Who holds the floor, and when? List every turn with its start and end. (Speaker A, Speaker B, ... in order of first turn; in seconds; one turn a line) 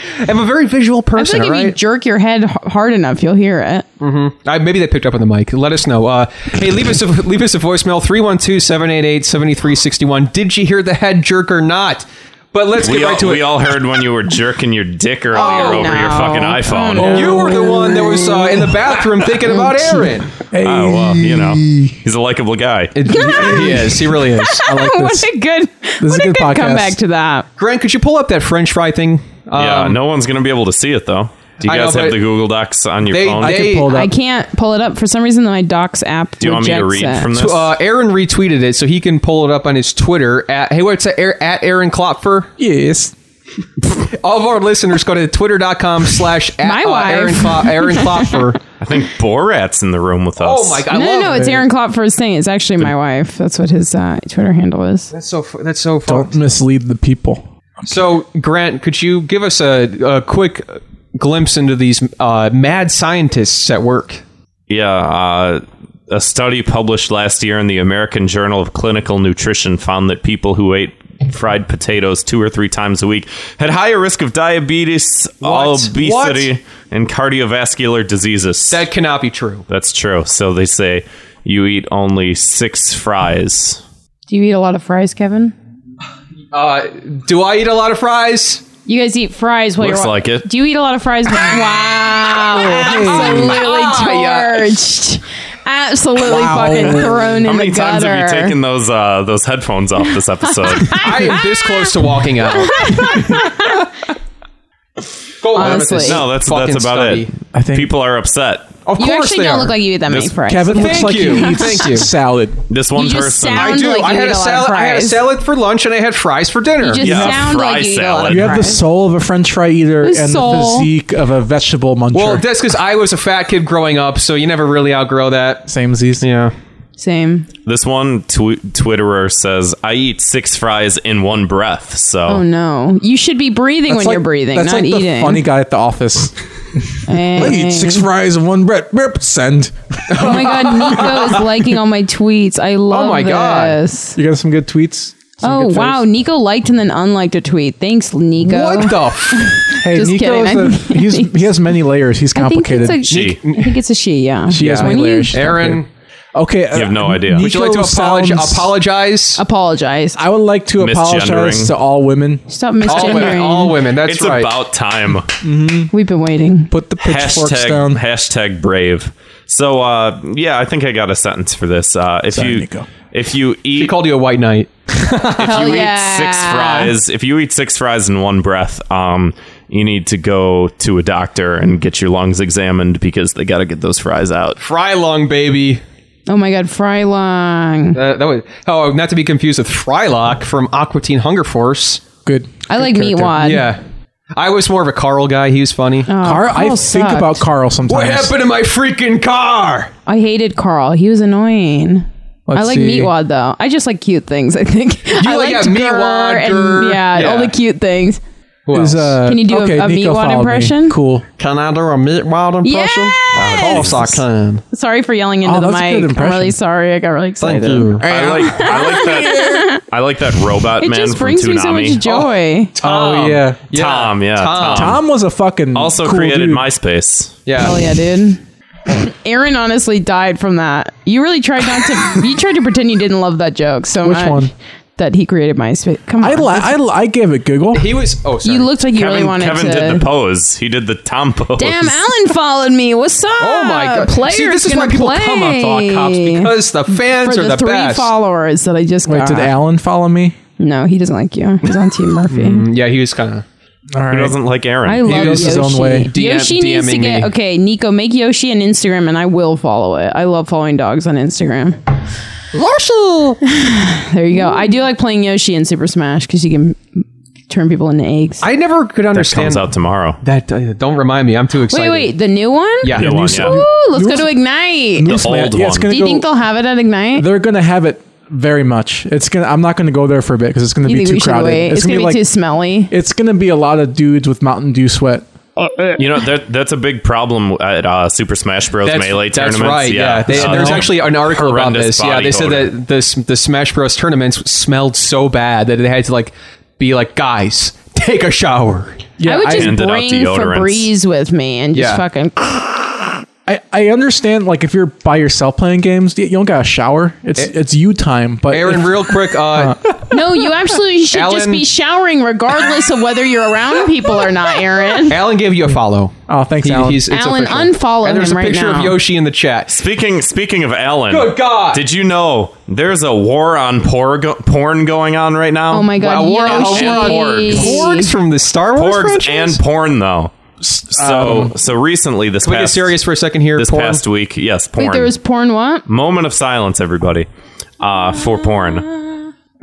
Speaker A: 0.2-1.8
Speaker B: 1.2-3.9
Speaker A: 4.0-13.7
Speaker C: 12.8-17.4
Speaker A: 15.3-16.0
Speaker B: 15.3-18.1
Speaker D: 17.0-18.6
Speaker A: 17.0-20.4
Speaker D: 20.5-22.0
Speaker C: 20.6-22.9
Speaker A: 22.9-24.6
Speaker B: 23.1-23.8
Speaker D: 23.2-25.3
Speaker B: 24.4-27.5
Speaker D: 26.0-27.0
Speaker A: 27.6-30.0
Speaker C: 29.6-33.6
Speaker A: 31.6-32.2
Speaker A: 33.1-33.9
Speaker D: 33.4-34.1
Speaker B: 33.9-37.3
Speaker C: 36.4-37.8
Speaker A: 37.4-42.5
Speaker D: 42.6-43.1
Speaker A: 44.0-48.6
Speaker B: 46.6-48.3
Speaker C: 48.8-50.9
Speaker A: 50.4-51.6
Speaker B: 50.9-55.1
Speaker D: 51.3-51.6
Speaker A: 55.1-56.4
Speaker D: 56.1-57.5
Speaker A: 57.9-64.2
Speaker C: 64.7-78.9
Speaker A: 75.4-76.5
Speaker A: 78.7-79.7
Speaker C: 79.7-83.8
Speaker B: 84.3-85.5
Speaker A: 86.5-88.6
Speaker B: 88.9-98.6
Speaker C: 89.8-90.5
Speaker D: 92.5-93.6
Speaker A: 92.6-94.7
Speaker D: 96.2-97.3
Speaker C: 97.3-101.1
Speaker B: 100.6-101.9
Speaker A: 101.0-103.2
Speaker B: 102.5-103.8
Speaker A: 105.4-107.3
Speaker B: 105.5-106.2
Speaker C: 105.6-108.8
Speaker D: 107.5-107.9
Speaker A: 108.8-109.7
Speaker B: 109.0-111.8
Speaker D: 110.5-112.6
Speaker A: 110.7-112.1
Speaker C: 112.7-114.0
Speaker B: 112.9-115.2
Speaker A: 113.5-117.4
Speaker B: 116.8-118.8
Speaker C: 117.0-118.5
Speaker D: 118.3-122.5
Speaker B: 120.0-120.9
Speaker A: 122.1-126.5
Speaker D: 125.7-126.2
Speaker B: 127.0-127.5
Speaker C: 127.7-132.4
Speaker B: 132.3-135.4
Speaker D: 133.9-140.3
Speaker B: 137.1-138.1
Speaker A: 140.1-141.4
Speaker B: 140.2-144.2
Speaker A: 142.9-143.8
Speaker D: 144.2-146.0
Speaker B: 145.4-151.5
Speaker A: 148.4-149.6
Speaker D: 149.8-153.1
Speaker B: 152.3-155.6
Speaker C: 153.1-153.4
Speaker A: 153.1-153.8
Speaker D: 154.5-155.8
Speaker A: 154.6-155.9
Speaker D: 156.3-158.8
Speaker C: 156.7-157.5
Speaker A: 157.4-159.4
Speaker B: 159.4-160.2
Speaker D: 160.2-162.4
Speaker C: 160.8-161.7
Speaker B: 162.5-163.8
Speaker A: 162.9-164.5
Speaker C: 164.1-165.3
Speaker D: 165.4-165.9
Speaker B: 165.9-166.7
Speaker D: 166.7-168.0
Speaker C: 167.0-173.9
Speaker D: 172.3-172.9
Speaker A: 173.8-174.7
Speaker C: 175.4-184.6
Speaker B: 175.4-176.9
Speaker A: 184.6-185.8
Speaker B: 186.3-188.0
Speaker A: 187.9-192.0
Speaker D: 192.2-193.5
Speaker B: 192.7-193.7
Speaker A: 193.4-193.8
Speaker A: 194.3-196.1
Speaker B: 196.1-197.4
Speaker D: 196.2-198.3
Speaker A: 197.9-199.9
Speaker B: 200.1-208.2
Speaker D: 202.5-203.1
Speaker A: 205.2-207.5
Speaker A: 208.7-209.2
Speaker D: 208.7-211.3
Speaker B: 209.2-211.0
Speaker A: 211.4-214.6
Speaker B: 212.6-213.9
Speaker C: 213.3-214.0
Speaker D: 213.6-214.2
Speaker B: 214.7-219.8
Speaker D: 215.4-216.6
Speaker A: 217.4-218.1
Speaker C: 218.0-222.0
Speaker B: 220.8-222.8
Speaker A: 222.1-225.0
Speaker D: 222.8-223.6
Speaker C: 223.7-225.0
Speaker D: 224.7-226.7
Speaker C: 225.7-227.4
Speaker A: 227.5-227.8
Speaker B: 227.6-236.7
Speaker D: 234.0-234.5
Speaker D: 236.2-238.0
Speaker A: 237.7-238.7
Speaker B: 238.4-240.0
Speaker C: 238.9-242.0
Speaker B: 241.6-249.5
Speaker A: 243.4-248.1
Speaker D: 249.1-250.4
Speaker B: 250.6-252.7
Speaker A: 252.3-253.4
Speaker D: 253.9-254.4
Speaker C: 254.1-255.2
Speaker B: 254.9-261.8
Speaker D: 255.0-256.1
Speaker A: 255.1-257.3
Speaker A: 262.5-263.4
Speaker B: 263.5-268.4
Speaker A: 268.4-269.7
Speaker C: 269.1-270.2
Speaker A: 270.2-272.1
Speaker B: 271.7-275.2
Speaker A: 272.8-273.2
Speaker D: 272.9-274.3
Speaker C: 273.0-273.6
Speaker D: 275.0-276.3
Speaker C: 275.1-275.9
Speaker B: 275.9-277.3
Speaker D: 277.1-282.2
Speaker B: 280.8-282.9
Speaker D: 282.9-285.3
Speaker C: 286.0-292.8
Speaker A: 288.8-299.0
Speaker D: 290.3-290.9
Speaker D: 299.2-299.8
Speaker B: 299.2-302.9
Speaker C: 299.5-300.9
Speaker A: 301.7-302.0
Speaker D: 303.5-309.9
Speaker A: 308.5-310.0
Speaker B: 310.1-315.2
Speaker A: 311.1-311.7
Speaker A: 315.0-319.8
Speaker D: 316.3-317.1
Speaker B: 317.1-319.0
Speaker C: 319.7-327.8
Speaker A: 321.1-321.8
Speaker B: 325.7-328.1
Speaker A: 326.0-329.6
Speaker C: 328.8-330.3
Speaker D: 330.6-331.6
Speaker C: 330.9-333.0
Speaker A: 332.4-334.0
Speaker C: 333.6-335.1
Speaker B: 334.8-335.8
Speaker C: 335.9-337.3
Speaker C: 337.8-338.9
Speaker B: 338.2-339.2